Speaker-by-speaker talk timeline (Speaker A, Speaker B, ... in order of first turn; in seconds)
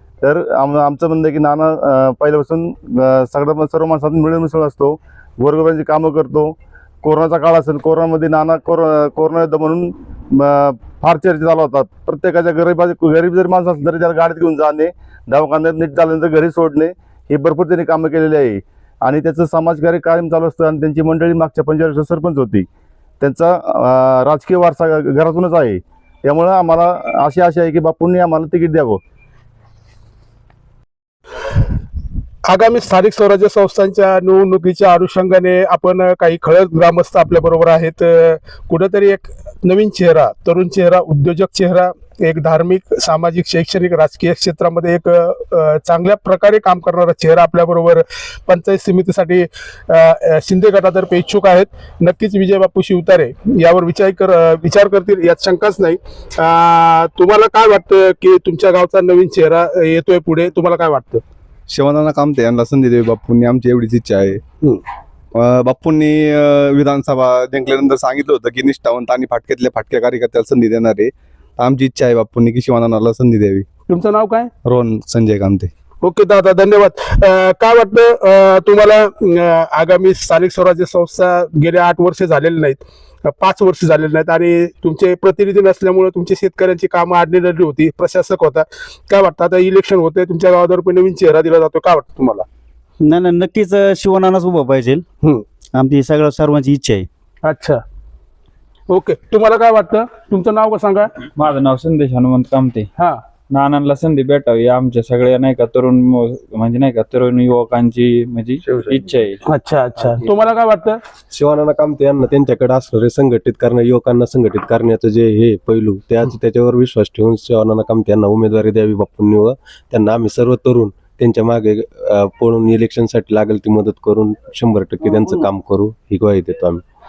Speaker A: 0.2-22.7, 23.2-29.0
Speaker B: 32.5-61.2, 73.9-74.5, 76.0-92.5, 97.4-97.8, 98.9-101.3, 103.0-103.2, 109.5-111.0
Speaker C: 61.7-64.4, 65.3-73.7, 74.7-75.7
Speaker D: 93.1-95.0, 95.8-97.0
Speaker E: 101.4-102.9, 103.5-109.4, 121.0-121.3, 124.0-124.7, 125.5-126.1
Speaker F: 111.4-126.8